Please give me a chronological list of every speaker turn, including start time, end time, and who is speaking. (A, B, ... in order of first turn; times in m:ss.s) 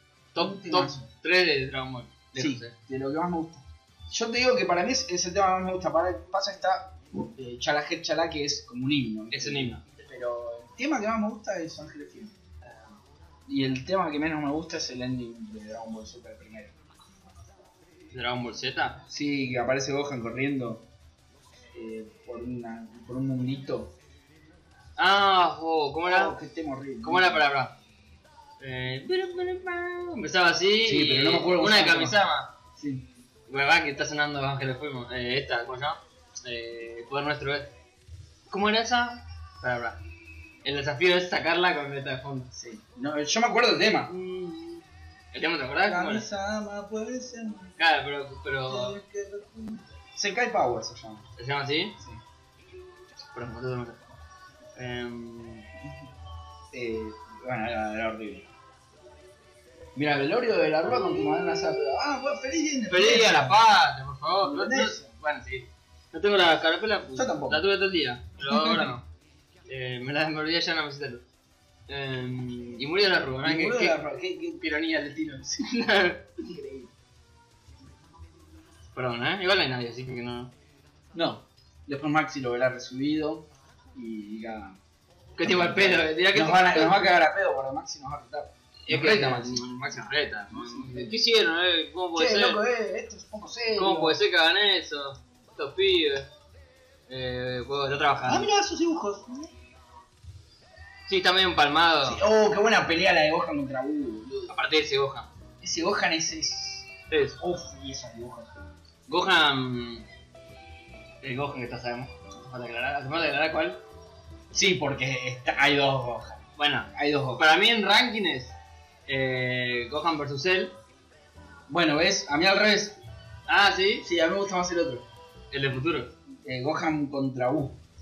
0:00.3-0:02.8 A
0:00.4-0:01.1 B
0:02.3-0:12.3 B
0:09.3-0:09.8 A
0:12.6-0:12.9 A
0:13.5-0:16.8 B
0:18.1-0:19.0 A
0:19.1-0:20.9 B
0:21.7-0:23.9 B
0:25.0-0:26.4 A
0:26.0-0:27.4 B
0:27.0-0:27.7 A
0:28.6-0:32.6 A
0:30.8-0:32.2 B
0:32.8-0:33.1 B
0:33.5-0:37.7 A
0:38.5-0:40.0 A
0:40.6-0:42.5 A
0:42.5-0:44.1 B
0:44.1-0:46.3 A
0:45.8-0:47.7 B
0:47.8-0:49.0 A
0:48.7-0:51.3 B
0:51.4-0:52.0 A
0:53.3-0:54.0 A
0:54.8-0:55.7 A
0:56.7-0:58.5 B
1:00.0-1:03.6 B
1:02.9-1:09.0 A
1:04.4-1:05.1 B
1:07.1-1:07.6 B
1:08.4-1:08.9 B
1:09.7-1:11.2 A
1:11.9-1:14.0 A
1:13.4-1:15.7 B
1:15.6-1:16.5 A
1:16.4-1:16.9 B
1:18.9-1:20.5 A
1:21.1-1:24.8 B
1:25.4-1:27.0 A
1:25.4-1:29.6 B
1:28.9-1:32.6 A
1:30.5-1:31.2 B
1:32.1-1:34.2 B
1:33.8-1:36.3 A
1:37.1-1:38.5 A
1:38.2-1:39.5 B
1:41.1-1:42.2 A
1:42.0-1:44.6 B
1:44.5-1:45.3 A
1:45.6-1:48.5 B
1:47.1-1:47.4 A
1:49.1-1:50.0 A
1:51.2-1:53.8 A
1:54.5-1:56.4 B
1:56.6-1:58.6 A
1:56.9-1:57.5 B
1:59.1-2:00.8 A
2:01.7-2:03.0 B
2:03.5-2:04.1 A
2:04.0-2:05.1 B
2:05.5-2:06.1 A
2:06.4-2:07.8 B